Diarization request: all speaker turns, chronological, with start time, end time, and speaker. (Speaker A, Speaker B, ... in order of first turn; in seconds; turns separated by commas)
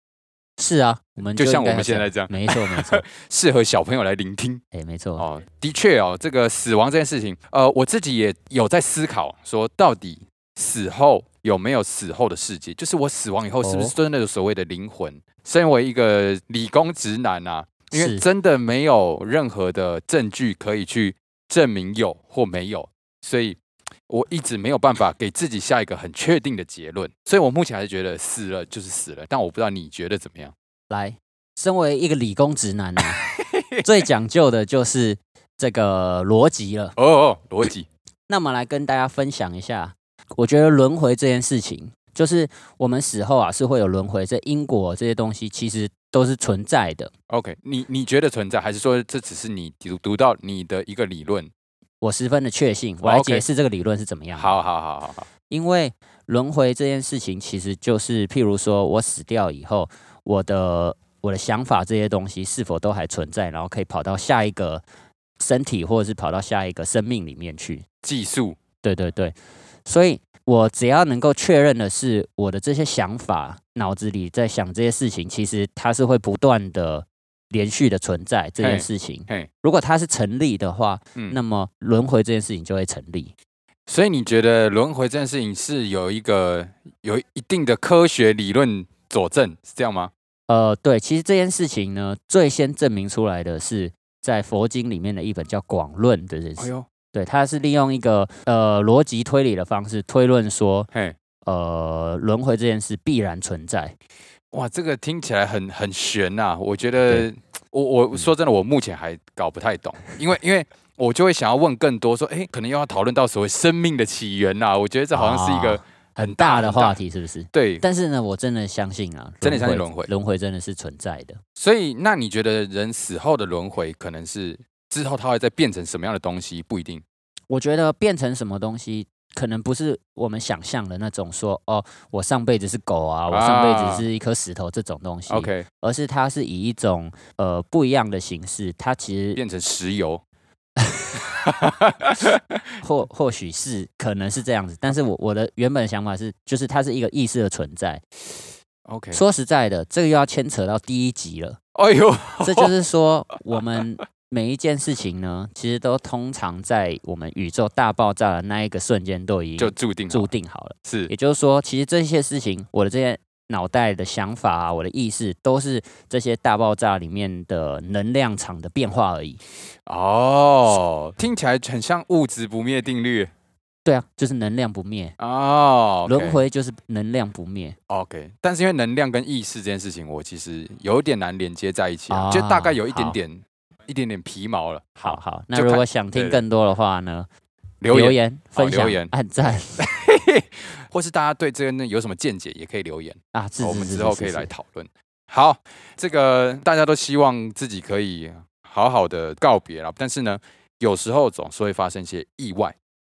Speaker A: 0.6-3.0, Speaker B: 1.4-4.6, Speaker A: 4.7-5.2, Speaker B: 5.2-30.5, Speaker A: 13.6-13.9, Speaker A: 17.9-18.2, Speaker A: 30.9-33.3, Speaker B: 33.2-33.9, Speaker A: 33.8-37.0, Speaker B: 37.0-37.9, Speaker A: 38.3-47.1, Speaker B: 47.3-51.5, Speaker A: 52.0-54.5, Speaker B: 53.0-53.5, Speaker B: 54.4-55.3, Speaker A: 55.5-64.8, Speaker A: 65.4-67.8, Speaker B: 68.0-68.6, Speaker A: 68.8-83.3, Speaker B: 78.6-79.5, Speaker B: 83.9-90.1, Speaker A: 90.5-100.9, Speaker B: 96.6-96.9, Speaker A: 101.5-104.0, Speaker B: 104.5-117.0, Speaker A: 115.1-121.4, Speaker B: 117.5-117.8, Speaker B: 119.4-120.1, Speaker B: 121.6-127.0, Speaker A: 127.5-139.4, Speaker B: 133.3-134.1, Speaker B: 135.3-135.7, Speaker B: 139.4-140.2, Speaker A: 140.8-141.2, Speaker B: 141.2-142.7, Speaker A: 142.8-148.0, Speaker B: 148.9-149.2, Speaker A: 149.1-151.6, Speaker B: 151.8-152.7, Speaker A: 152.4-169.4, Speaker B: 159.6-160.3, Speaker B: 160.8-161.1, Speaker B: 169.9-173.3, Speaker A: 173.8-175.2, Speaker B: 175.2-176.4, Speaker A: 176.1-177.8, Speaker B: 177.9-186.4, Speaker A: 182.1-183.2, Speaker A: 185.0-187.3, Speaker B: 187.8-202.8, Speaker A: 187.9-189.8, Speaker A: 193.3-194.5